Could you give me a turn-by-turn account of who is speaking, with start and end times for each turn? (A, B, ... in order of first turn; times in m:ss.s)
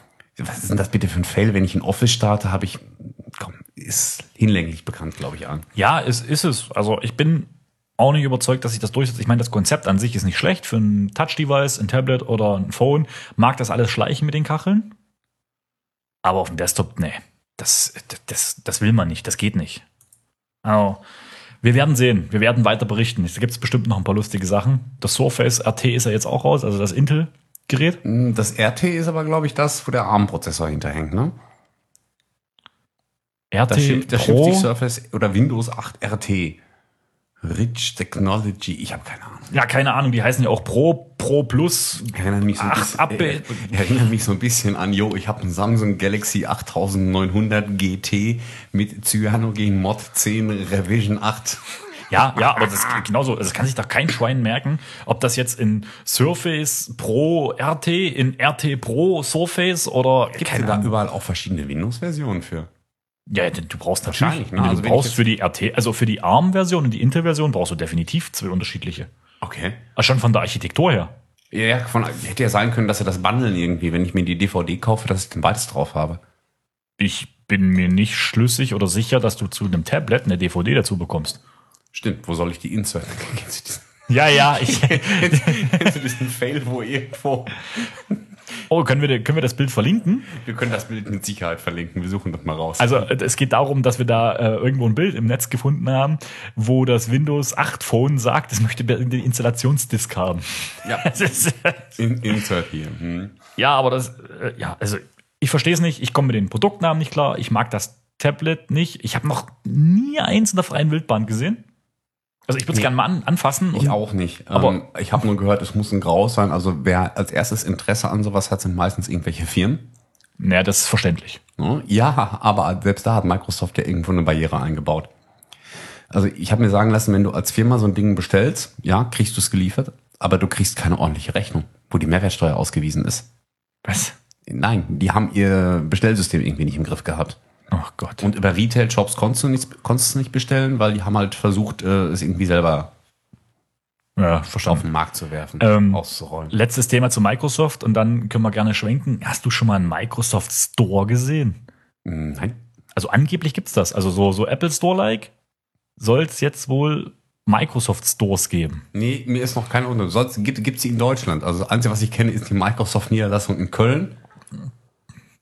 0:00.4-0:05.7 A
0:05.8-0:15.0 B
0:16.2-0:19.8 B
0:20.6-0:21.0 B
0:21.6-0:28.0 B
0:28.0-0:31.3 A
0:33.5-0:34.7 B
0:33.7-0:36.6 A
0:37.4-0:39.5 A
0:39.5-0:43.7 B
0:42.1-0:51.7 A
0:52.1-1:00.9 B
1:00.4-1:02.7 A
1:03.3-1:09.1 B
1:04.1-1:05.2 A
1:09.4-1:09.8 A
1:10.0-1:11.1 B
1:11.5-1:16.2 A
1:17.0-1:21.4 B
1:21.9-1:28.2 A
1:24.1-1:26.0 B
1:28.7-1:30.3 B
1:30.3-1:33.1 A
1:32.8-1:42.0 B
1:40.8-1:43.4 A
1:43.6-1:51.6 B
1:52.5-1:54.0 B
1:53.7-1:59.9 A
2:00.4-2:01.4 B
2:01.6-2:05.1 A
2:06.1-2:13.3 A
2:13.8-2:14.2 B
2:14.5-2:17.4 A
2:17.7-2:18.3 B
2:18.2-2:22.9 A
2:24.2-2:24.9 B
2:24.6-2:26.5 A
2:25.6-2:31.6 B
2:32.0-2:32.6 A
2:33.0-2:35.3 B
2:36.0-2:38.9 B
2:38.9-2:44.2 A